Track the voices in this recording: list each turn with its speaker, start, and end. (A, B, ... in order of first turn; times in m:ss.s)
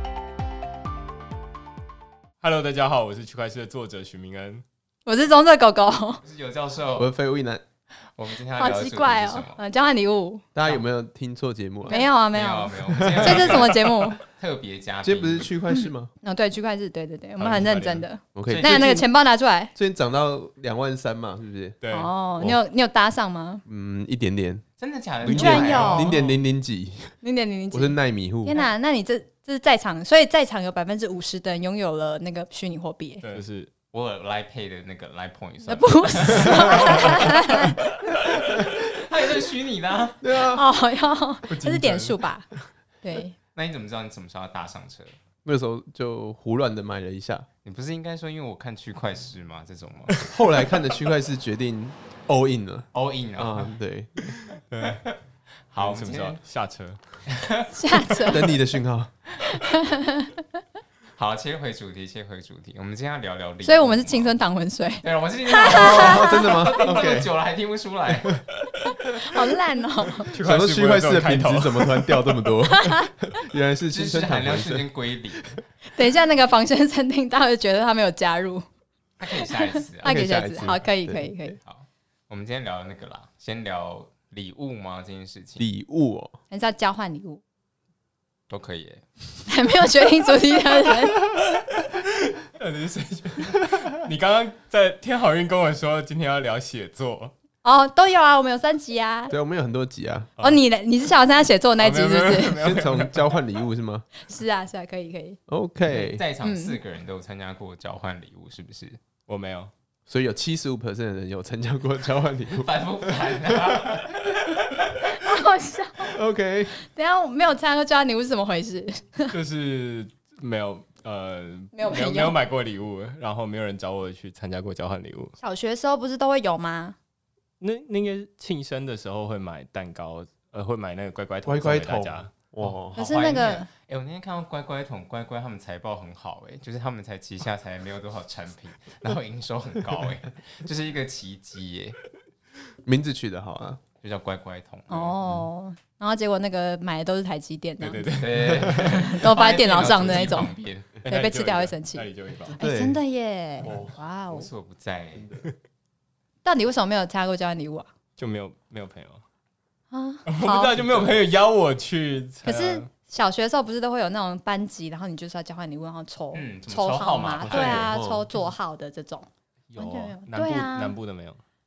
0:02.4-0:04.6 A
0:05.0-0:06.2 B
0:06.2-0:07.1 C
0:07.0-0:07.6 D
0:08.1-0:09.6 C
0:08.6-0:10.4 B
0:10.5-0:12.0 D
0:11.9-0:14.2 B
0:11.9-0:15.5 C
0:12.9-0:13.6 D
0:15.0-0:16.1 D
0:15.7-0:19.7 B
0:17.4-0:18.0 A
0:18.3-0:19.1 D
0:18.5-0:18.9 C
0:19.7-0:21.8 D
0:21.8-0:22.1 A
0:21.9-0:23.6 B
0:23.6-0:24.6 D
0:24.8-0:26.2 C
0:25.2-0:27.2 D
0:25.3-0:26.2 B
0:25.9-0:26.4 A
0:27.2-0:33.2 B
0:27.7-0:28.6 D
0:33.2-0:33.7 A
0:33.9-0:37.6 C
0:35.6-0:37.8 B
0:38.3-0:38.7 D
0:38.3-0:40.2 C
0:40.2-0:40.6 D
0:40.5-0:42.5 B
0:41.5-0:42.2 A
0:43.0-0:43.3 B
0:43.5-0:45.2 C
0:45.4-0:47.5 D
0:47.6-0:50.3 C
0:50.2-0:54.3 D
0:52.9-0:53.7 C
0:54.6-0:55.0 A
0:54.8-0:55.1 C
0:55.7-0:56.4 C
0:55.8-0:57.0 A
0:57.3-0:57.7 C
0:57.7-0:58.5 B
0:58.3-0:59.1 D
0:59.4-1:00.4 B
1:01.2-1:04.4 C
1:03.6-1:06.5 B
1:05.0-1:08.4 C
1:05.7-1:07.3 D
1:09.1-1:10.3 B
1:10.2-1:12.4 A
1:10.4-1:15.4 D
1:12.7-1:13.1 B
1:13.9-1:15.6 C
1:15.9-1:18.6 B
1:19.2-1:20.8 C
1:19.4-1:21.6 B
1:20.0-1:21.5 D
1:21.6-1:25.6 C
1:25.6-1:26.4 D
1:26.5-1:27.4 B
1:28.5-1:29.0 C
1:29.4-1:31.2 B
1:32.0-1:37.3 A
1:37.6-1:39.3 B
1:39.3-1:40.3 D
1:40.4-1:42.6 B
1:41.8-1:43.4 A
1:42.6-1:44.1 D
1:44.2-1:45.4 B
1:45.5-1:46.2 D
1:45.8-1:49.0 C
1:46.4-1:46.7 B
1:49.3-1:49.7 A
1:50.1-1:54.0 D
1:52.5-1:55.1 C
1:55.1-1:56.1 B
1:56.0-1:56.8 D
1:56.8-1:59.3 B
1:59.3-2:05.4 A
2:01.7-2:02.4 B
2:05.4-2:07.0 B
2:07.6-2:12.8 A
2:11.4-2:13.0 D
2:12.9-2:22.0 C
2:12.9-2:13.7 B
2:22.8-2:23.8 D
2:24.0-2:25.2 C
2:24.9-2:28.1 B
2:27.8-2:29.2 A
2:28.2-2:31.0 C
2:28.8-2:30.5 B
2:31.0-2:32.5 A
2:31.0-2:34.5 B
2:32.5-2:33.0 D
2:33.6-2:34.0 D
2:34.3-2:35.3 C
2:35.1-2:35.5 D
2:36.4-2:37.9 B
2:38.2-2:39.2 A
2:39.9-2:40.7 B
2:40.2-2:42.9 A
2:40.8-2:41.2 D
2:42.4-2:51.0 B
2:46.3-2:47.9 C
2:47.4-2:48.2 D
2:49.7-2:51.4 A